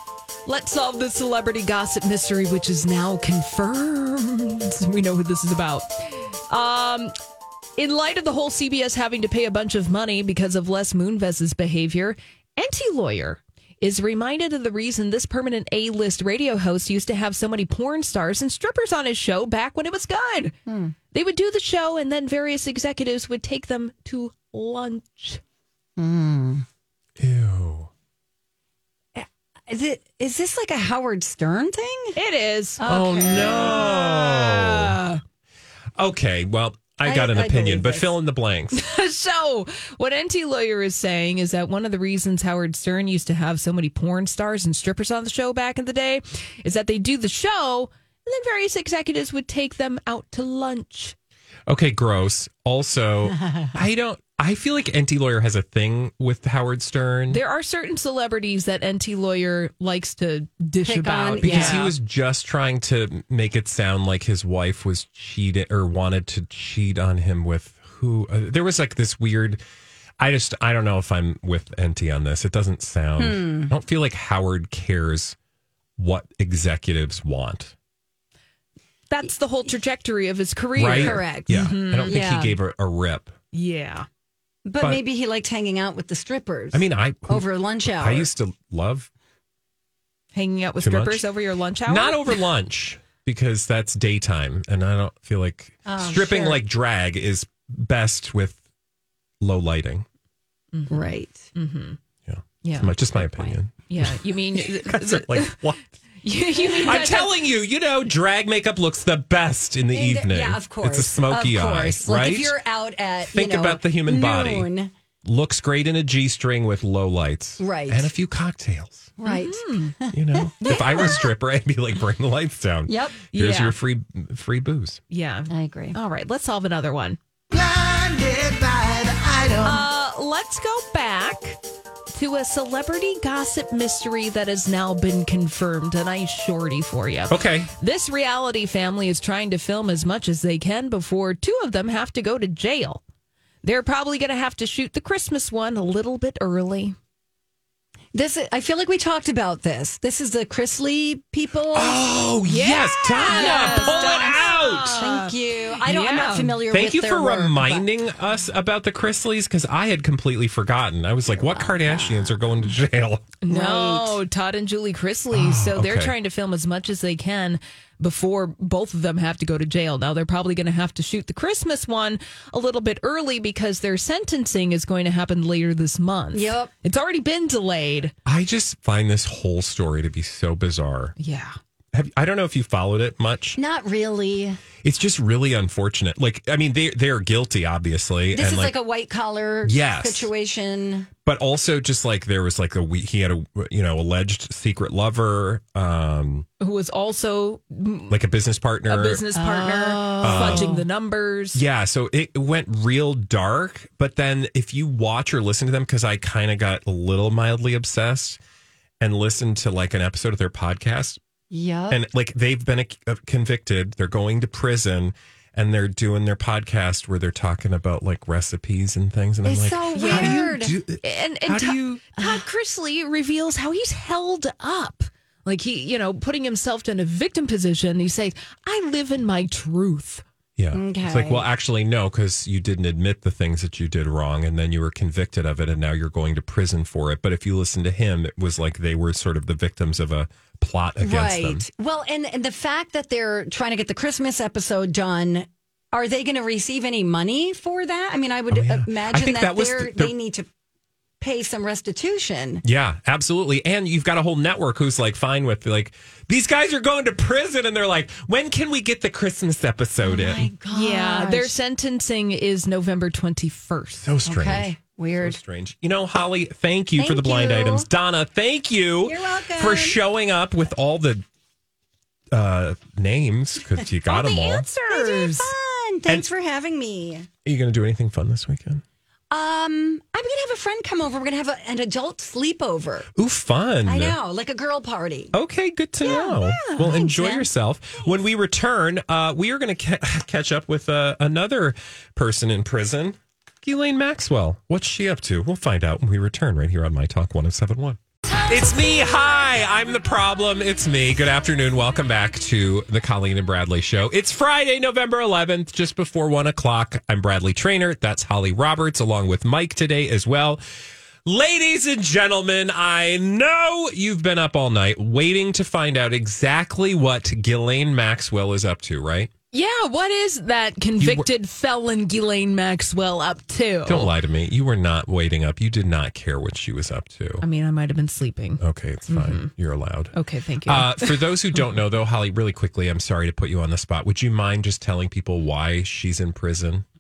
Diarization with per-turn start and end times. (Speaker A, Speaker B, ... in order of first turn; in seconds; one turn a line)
Speaker A: 0.5-7.1
Speaker A: 7.8-20.6
Speaker B: 20.7-20.9
Speaker A: 21.1-25.4
Speaker B: 26.0-26.6
Speaker C: 27.2-27.9
Speaker B: 29.2-32.2
Speaker A: 32.2-35.2
Speaker B: 32.8-33.9
Speaker C: 32.9-35.0
Speaker C: 36.0-38.8
Speaker B: 37.0-38.1
Speaker A: 38.7-51.1
Speaker C: 51.7-57.4
Speaker B: 53.3-53.7
Speaker A: 57.3-61.9
Speaker B: 60.9-61.9
Speaker C: 61.4-69.6
Speaker C: 70.2-75.4
Speaker B: 73.2-73.7
Speaker C: 76.0-77.7
Speaker A: 79.1-82.2
Speaker C: 80.8-83.4
Speaker B: 80.8-82.6
Speaker A: 83.5-84.1
Speaker B: 84.7-88.3
Speaker C: 86.7-89.1
Speaker A: 90.3-92.4
Speaker C: 90.8-91.2
Speaker C: 91.9-98.6
Speaker B: 95.8-96.6
Speaker C: 99.4-100.1
Speaker A: 100.7-102.0
Speaker B: 100.9-101.5
Speaker C: 102.3-105.8
Speaker A: 102.6-102.9
Speaker B: 103.2-103.5
Speaker A: 103.9-105.6
Speaker A: 106.2-107.4
Speaker C: 106.8-112.6
Speaker B: 109.9-114.9
Speaker C: 113.3-114.7
Speaker C: 115.2-119.1
Speaker B: 117.6-118.1
Speaker B: 119.2-121.3
Speaker A: 119.2-120.0
Speaker C: 120.1-125.0
Speaker B: 122.9-123.2
Speaker A: 123.3-123.8
Speaker A: 125.1-127.2
Speaker B: 125.5-126.0
Speaker B: 127.5-129.8
Speaker A: 129.6-131.6
Speaker A: 132.1-143.0
Speaker C: 137.3-137.7
Speaker A: 143.6-147.0
Speaker B: 148.1-152.0
Speaker C: 151.7-155.1
Speaker A: 152.4-156.6
Speaker B: 153.1-157.9
Speaker C: 156.7-163.3
Speaker B: 161.4-162.3
Speaker A: 163.4-178.1
Speaker B: 163.5-164.2
Speaker C: 165.3-166.2
Speaker B: 176.3-176.7
Speaker C: 178.3-181.2
Speaker A: 181.2-181.6
Speaker C: 181.9-183.6
Speaker B: 183.6-184.6
Speaker C: 184.8-188.8
Speaker B: 188.3-191.1
Speaker C: 189.6-190.3
Speaker C: 191.2-196.5
Speaker A: 196.6-198.2
Speaker C: 198.1-199.2
Speaker A: 198.9-201.6
Speaker B: 199.3-200.8
Speaker C: 200.2-200.8
Speaker C: 201.5-208.4
Speaker C: 209.0-211.2
Speaker B: 211.5-212.0
Speaker C: 211.9-222.1
Speaker B: 219.4-220.8
Speaker A: 219.9-230.2
Speaker C: 230.6-241.7
Speaker B: 230.7-231.5
Speaker B: 241.0-250.5
Speaker C: 248.5-250.1
Speaker B: 251.2-252.6
Speaker C: 252.6-260.5
Speaker B: 260.0-261.6
Speaker A: 260.7-264.1
Speaker C: 264.0-271.2
Speaker B: 264.2-265.4
Speaker B: 267.0-267.9
Speaker B: 269.0-270.0
Speaker C: 272.3-274.7
Speaker A: 274.1-275.5
Speaker B: 274.9-277.3
Speaker C: 277.4-278.8
Speaker B: 279.3-283.1
Speaker C: 283.2-284.2
Speaker B: 283.9-285.3
Speaker C: 285.3-310.6
Speaker A: 286.0-287.0
Speaker B: 286.0-287.5
Speaker C: 311.2-319.3
Speaker A: 319.5-324.1
Speaker C: 321.0-321.3
Speaker C: 323.9-327.4
Speaker A: 327.4-329.5
Speaker C: 328.6-330.1
Speaker A: 330.1-331.6
Speaker C: 330.7-336.9